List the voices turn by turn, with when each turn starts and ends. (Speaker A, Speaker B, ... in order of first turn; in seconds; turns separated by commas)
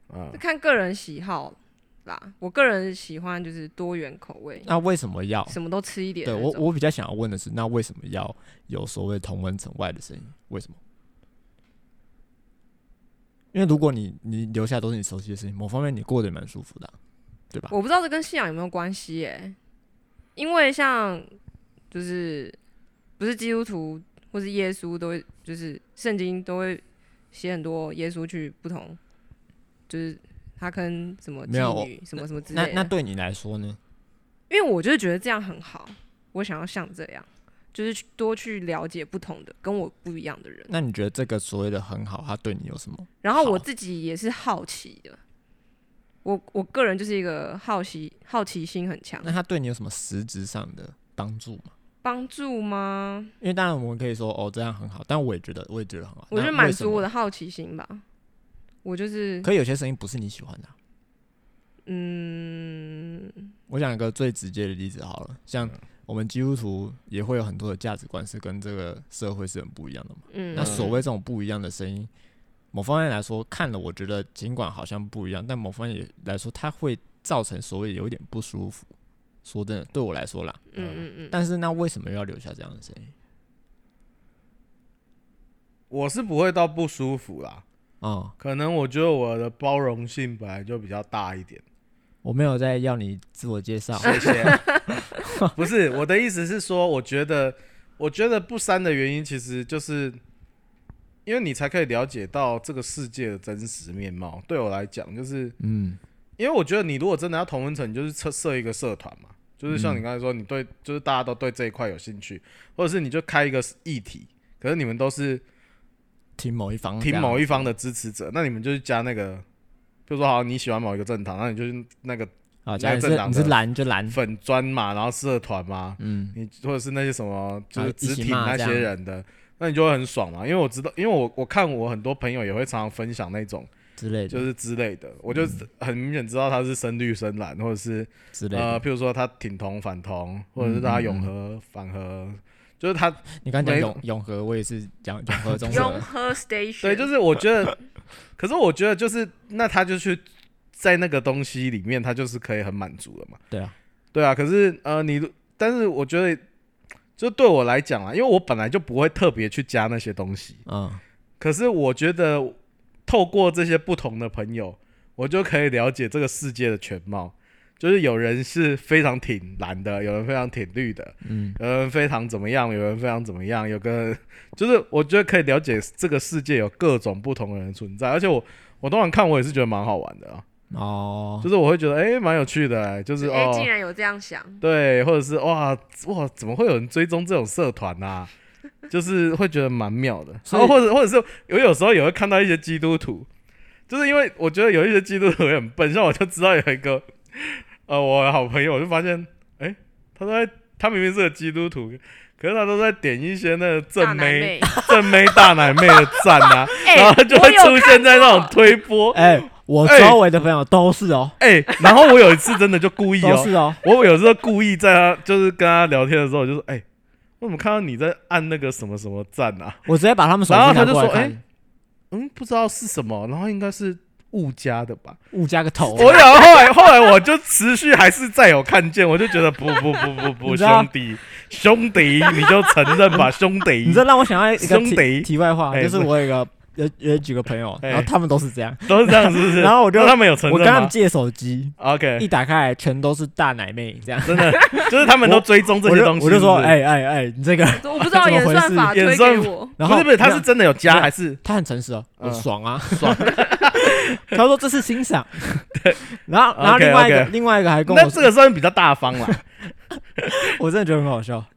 Speaker A: 0.1-0.4, Speaker B: 0.3-4.7, Speaker C: 4.6-5.6, Speaker B: 5.5-6.6, Speaker C: 6.2-10.8, Speaker C: 13.5-16.9, Speaker B: 17.7-19.6, Speaker B: 20.4-21.3, Speaker B: 21.9-22.6, Speaker B: 23.2-29.0, Speaker B: 29.9-32.9, Speaker C: 31.5-33.8, Speaker B: 34.5-40.7, Speaker C: 40.7-43.6, Speaker B: 43.2-45.2, Speaker B: 46.2-49.4, Speaker C: 49.2-51.7, Speaker B: 52.0-53.3, Speaker C: 53.4-57.1, Speaker B: 56.3-58.0, Speaker B: 58.8-59.5, Speaker C: 59.4-60.7, Speaker B: 61.9-63.5, Speaker C: 63.7-72.1, Speaker B: 70.3-71.0, Speaker A: 70.6-70.9, Speaker C: 72.7-78.9, Speaker C: 79.5-83.1, Speaker B: 80.7-81.3, Speaker A: 85.9-87.6, Speaker C: 88.0-88.3, Speaker A: 88.4-91.6, Speaker C: 92.2-94.6, Speaker A: 94.0-94.6, Speaker B: 94.1-95.0, Speaker C: 95.2-95.5, Speaker A: 95.5-100.2, Speaker A: 101.3-105.6, Speaker C: 105.6-106.0, Speaker A: 106.4-115.4, Speaker C: 109.7-110.0, Speaker C: 116.4-117.6, Speaker A: 117.0-119.5, Speaker A: 120.1-123.6, Speaker C: 122.7-124.2, Speaker A: 124.1-133.7, Speaker C: 126.0-126.4, Speaker C: 127.8-128.9, Speaker C: 134.0-134.5, Speaker A: 134.3-144.0, Speaker C: 135.3-135.6, Speaker C: 138.3-138.8, Speaker C: 140.6-141.3, Speaker C: 143.4-146.1, Speaker A: 145.4-146.0, Speaker B: 145.7-147.1, Speaker A: 146.8-147.8, Speaker A: 148.4-150.2, Speaker A: 150.8-153.4, Speaker A: 154.1-156.4, Speaker A: 157.2-160.6, Speaker C: 160.7-161.0, Speaker A: 161.4-180.4, Speaker C: 171.2-171.6, Speaker C: 180.7-181.5, Speaker A: 181.4-183.7, Speaker B: 183.2-184.6, Speaker A: 184.6-188.3, Speaker A: 188.9-193.3, Speaker C: 190.5-190.8, Speaker A: 193.9-210.2, Speaker B: 204.0-204.8, Speaker B: 206.7-208.6, Speaker C: 209.1-211.4, Speaker A: 211.4-216.8, Speaker C: 213.2-213.8, Speaker A: 217.4-219.8, Speaker C: 219.9-221.4, Speaker A: 220.5-221.4, Speaker A: 222.1-225.2, Speaker C: 225.3-226.3, Speaker A: 225.9-234.1, Speaker C: 230.4-230.9, Speaker C: 233.8-249.0, Speaker A: 234.6-236.1, Speaker A: 237.8-238.1, Speaker A: 238.9-240.9, Speaker A: 241.8-242.3, Speaker A: 244.2-246.8, Speaker B: 247.8-249.8, Speaker A: 248.9-251.4, Speaker C: 249.8-258.3, Speaker A: 252.2-254.4, Speaker A: 255.8-256.0, Speaker A: 256.6-257.3, Speaker A: 257.9-259.4, Speaker A: 260.2-260.5, Speaker C: 260.3-261.5